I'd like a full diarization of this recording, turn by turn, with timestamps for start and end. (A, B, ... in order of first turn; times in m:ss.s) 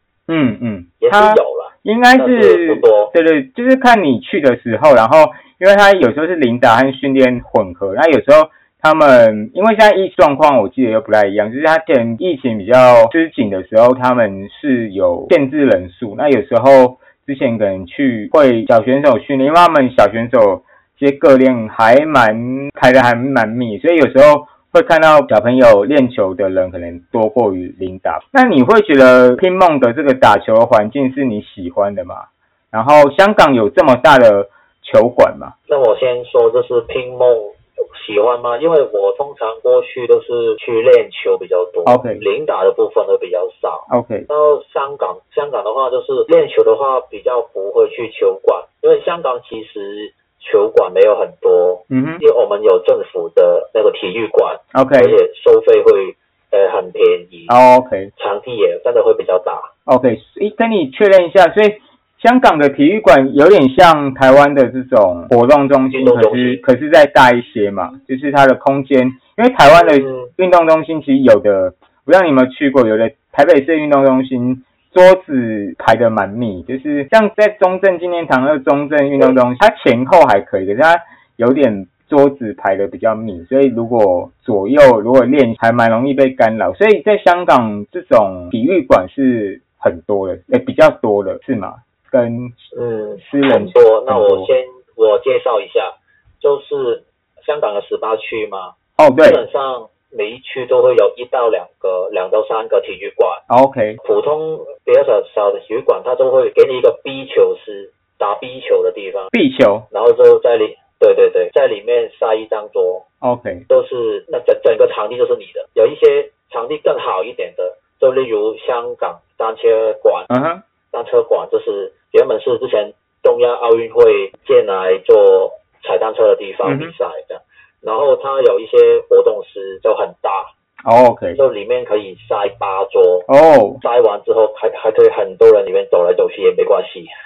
0:00.3-0:35.6 A
0:01.0-0:03.1 B
0:35.7-0:57.5 B
0:41.9-0:42.2 A
0:43.9-0:44.3 A
0:51.9-0:52.2 A
0:54.7-0:55.2 A
0:57.5-0:58.1 A
0:58.2-0:59.7 B
0:59.9-1:32.6 A
1:05.9-1:06.6 B
1:09.7-1:10.3 B
1:32.7-1:43.4 B
1:33.2-1:34.5 A
1:39.0-1:39.4 A
1:43.5-1:44.0 A
1:44.0-1:49.3 B
1:49.3-1:49.9 A
1:49.9-1:53.0 B
1:53.2-1:53.6 A
1:53.7-2:00.3 B
2:00.3-2:00.6 A
2:00.9-2:10.5 B
2:06.6-2:06.9 A
2:10.9-2:11.4 A
2:11.3-2:13.3 B
2:13.3-2:13.8 A
2:13.8-2:17.1 B